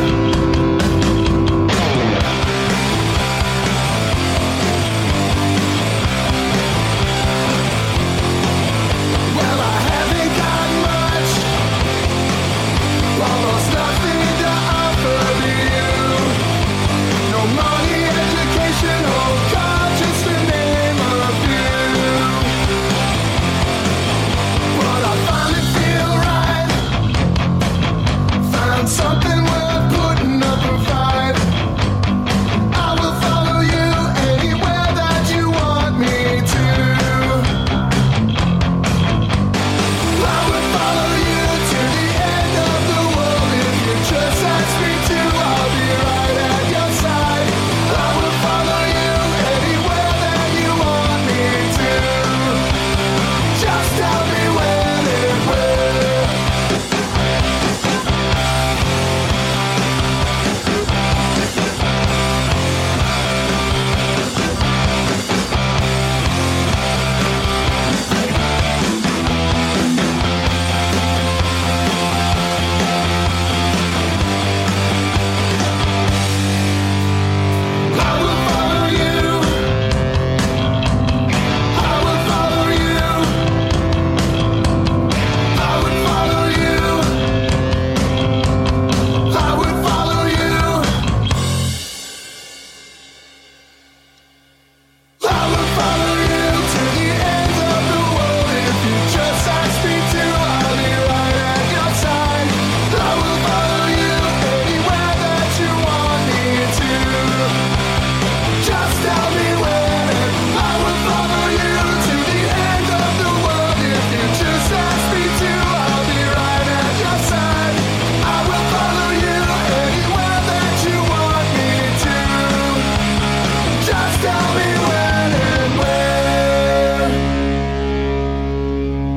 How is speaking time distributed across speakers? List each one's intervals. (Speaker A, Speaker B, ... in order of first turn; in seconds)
Speaker A: 9.3-11.5, 13.1-16.4, 17.2-22.5, 24.7-26.9, 28.4-31.5, 32.7-37.5, 40.1-52.6, 53.5-56.4, 77.9-79.8, 81.7-83.5, 85.5-87.3, 89.2-91.0, 95.2-107.6, 108.6-122.9, 123.8-127.2